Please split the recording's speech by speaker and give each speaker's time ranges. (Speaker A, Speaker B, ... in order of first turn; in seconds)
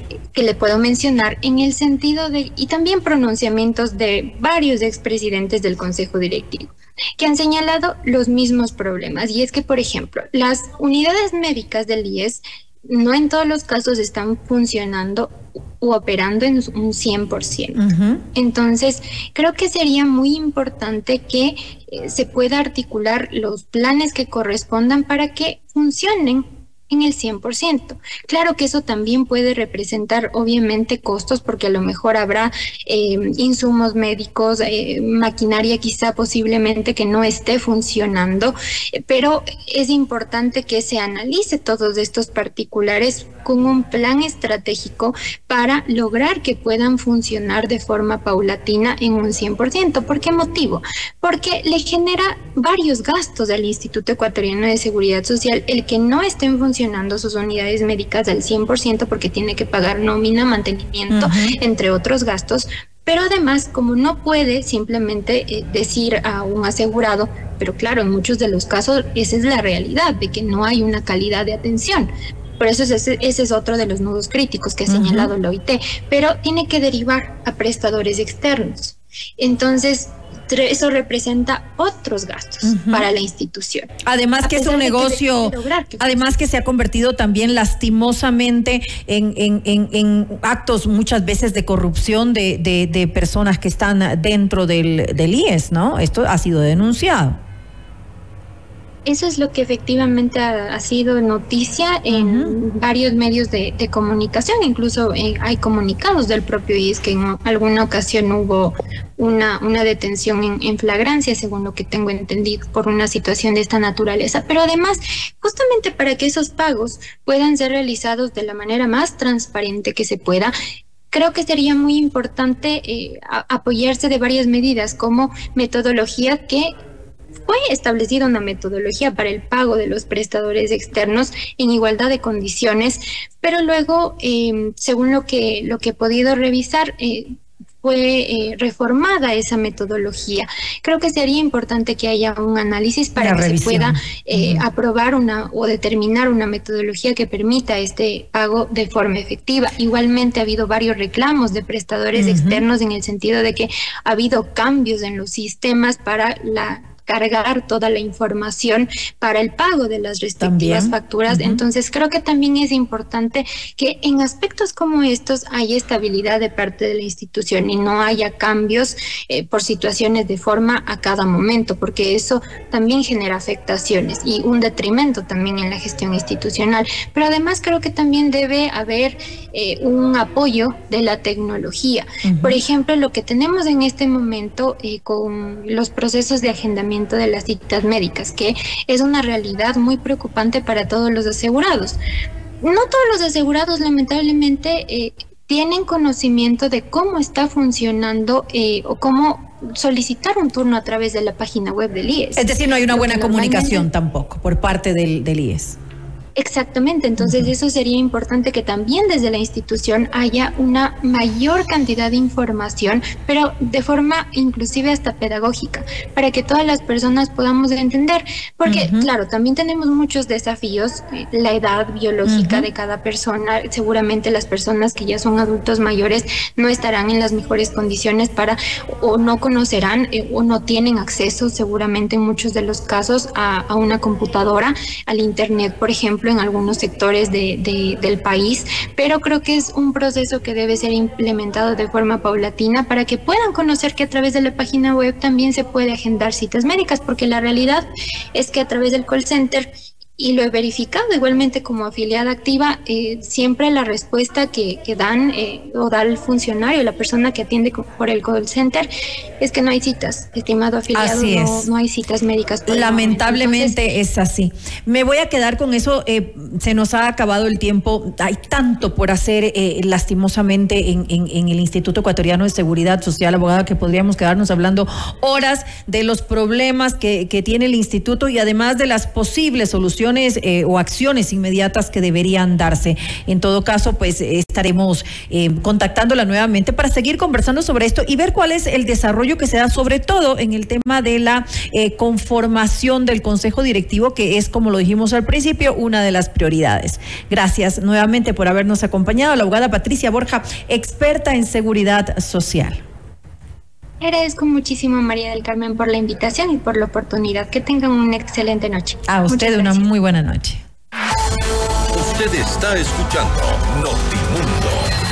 Speaker A: 0.3-17.8, 18.3-83.9, 84.4-86.4, 99.0-120.5, 121.1-126.7, 127.5-192.0, 192.6-203.9, 206.3-258.9, 259.4-263.8, 304.0-309.9
Speaker B: 17.7-18.2, 61.1-61.5, 74.9-75.3, 82.6-83.1, 84.0-97.4, 102.1-102.5, 143.2-144.6, 152.1-152.6, 160.4-161.6, 182.2-182.6, 202.4-205.8, 207.2-207.5, 218.7-219.1, 222.3-222.7, 260.9-261.7, 262.7-302.8, 309.1-310.6
Speaker C: 311.9-314.9